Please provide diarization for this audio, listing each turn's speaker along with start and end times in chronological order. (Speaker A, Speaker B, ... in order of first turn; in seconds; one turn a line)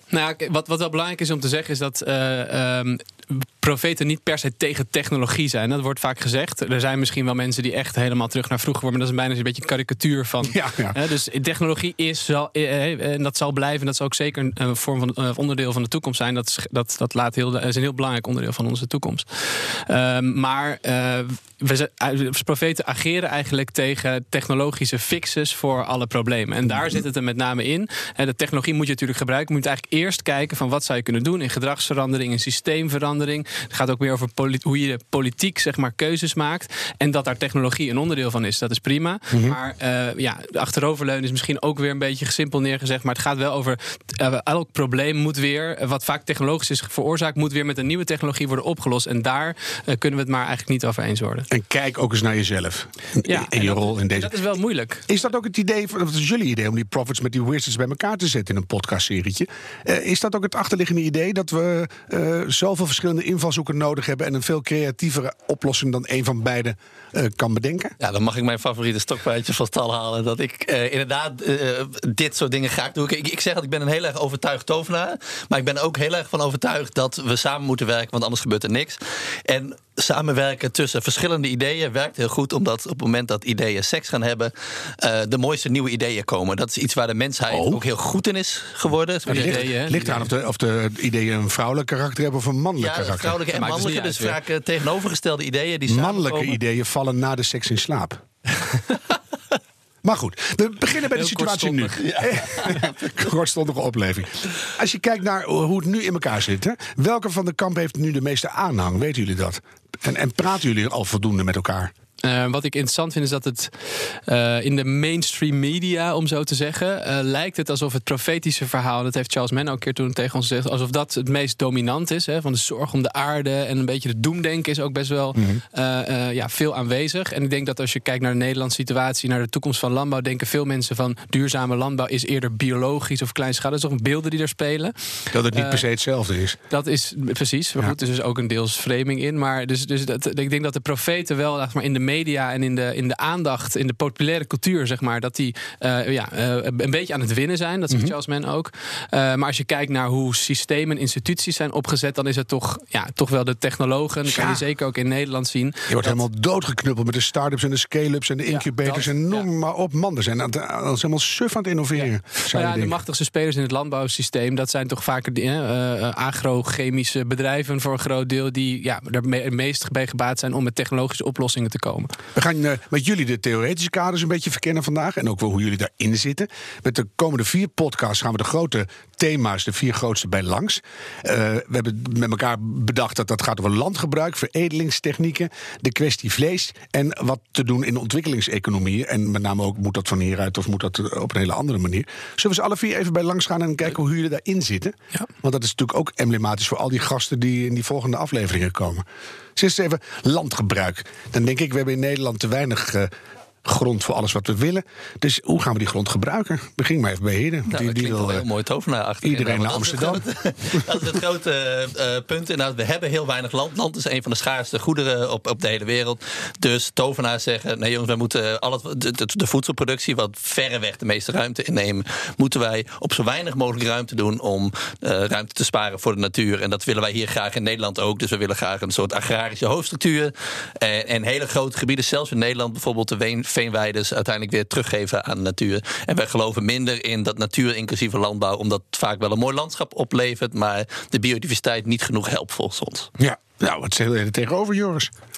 Speaker A: 0.1-51.5
Speaker B: 10.4-11.0
Speaker B: 26.7-27.0
Speaker B: 39.3-39.6
Speaker B: 51.5-54.3
Speaker A: 53.2-55.0
Speaker B: 55.1-67.9
Speaker C: 68.0-89.7
Speaker B: 87.5-87.8
Speaker B: 89.2-93.4
Speaker A: 89.3-90.3
Speaker C: 92.8-96.6
Speaker A: 93.5-94.4
Speaker B: 95.9-98.2
Speaker B: 100.0-111.9
Speaker A: 101.1-102.0
Speaker C: 102.0-103.2
Speaker A: 112.2-135.8
Speaker B: 125.3-125.6
Speaker B: 135.3-136.6
Speaker A: 136.7-156.2
Speaker B: 154.2-154.6
Speaker B: 155.9-162.9
Speaker A: 158.5-159.4
Speaker A: 162.0-172.1
Speaker B: 172.3-199.0
Speaker B: 199.6-203.1
Speaker B: 203.6-208.4
Speaker C: 207.7-243.1
Speaker B: 209.2-210.9
Speaker B: 243.2-245.1